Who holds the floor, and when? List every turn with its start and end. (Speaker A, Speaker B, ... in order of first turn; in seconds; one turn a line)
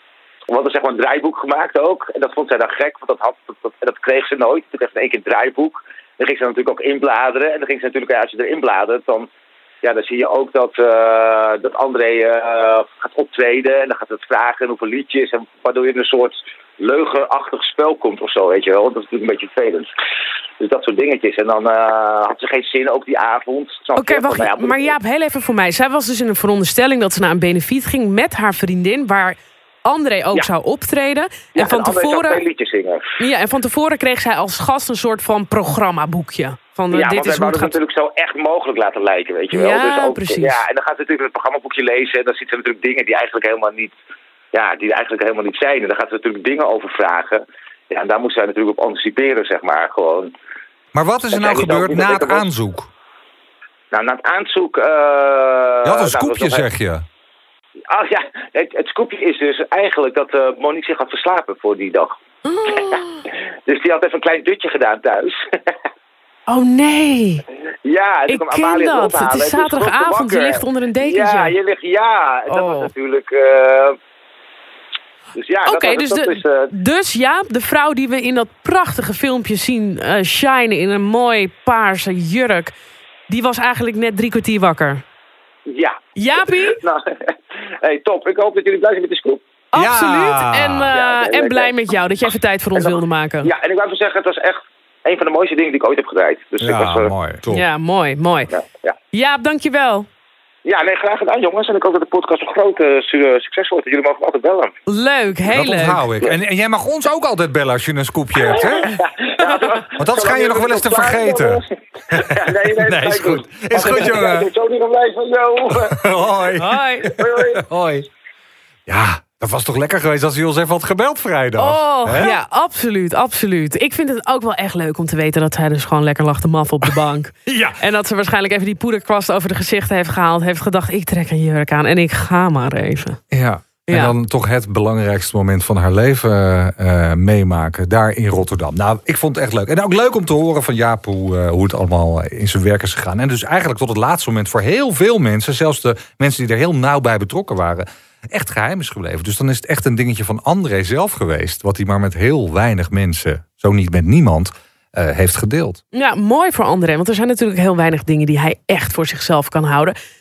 Speaker A: 0.5-9.3
Speaker A: 9.8-19.9
Speaker A: 20.6-24.9
Speaker B: 24.0-32.4
Speaker A: 31.6-33.1
Speaker B: 33.2-37.8
Speaker A: 36.9-43.9
Speaker B: 39.5-40.6
Speaker A: 44.5-50.3
Speaker C: 50.9-52.9
Speaker A: 51.3-52.5
Speaker A: 53.9-56.7
Speaker C: 55.8-57.0
Speaker A: 57.9-62.2
Speaker B: 62.5-63.2
Speaker A: 63.7-65.7
Speaker B: 66.5-67.4
Speaker A: 67.8-74.0
Speaker B: 68.3-71.5
Speaker B: 72.5-72.9
Speaker A: 75.4-76.7
Speaker B: 75.7-82.7
Speaker B: 83.3-85.0
Speaker A: 85.7-86.0
Speaker B: 86.2-86.8
Speaker A: 86.6-89.4
Speaker B: 89.7-93.5
Speaker C: 89.7-90.9
Speaker A: 90.9-91.7
Speaker A: 92.8-97.1
Speaker C: 96.6-97.6
Speaker B: 97.5-98.5
Speaker A: 98.5-99.0
Speaker B: 99.1-100.1
Speaker A: 100.7-104.7
Speaker B: 104.9-106.1
Speaker C: 105.5-108.9
Speaker A: 108.5-116.0
Speaker C: 110.0-114.5
Speaker C: 115.8-118.1
Speaker B: 116.6-117.1
Speaker A: 117.2-117.7
Speaker C: 118.9-122.3
Speaker B: 121.6-133.2
Speaker C: 127.5-127.8
Speaker C: 133.3-155.8
Speaker B: 133.9-134.1
Speaker B: 155.9-159.9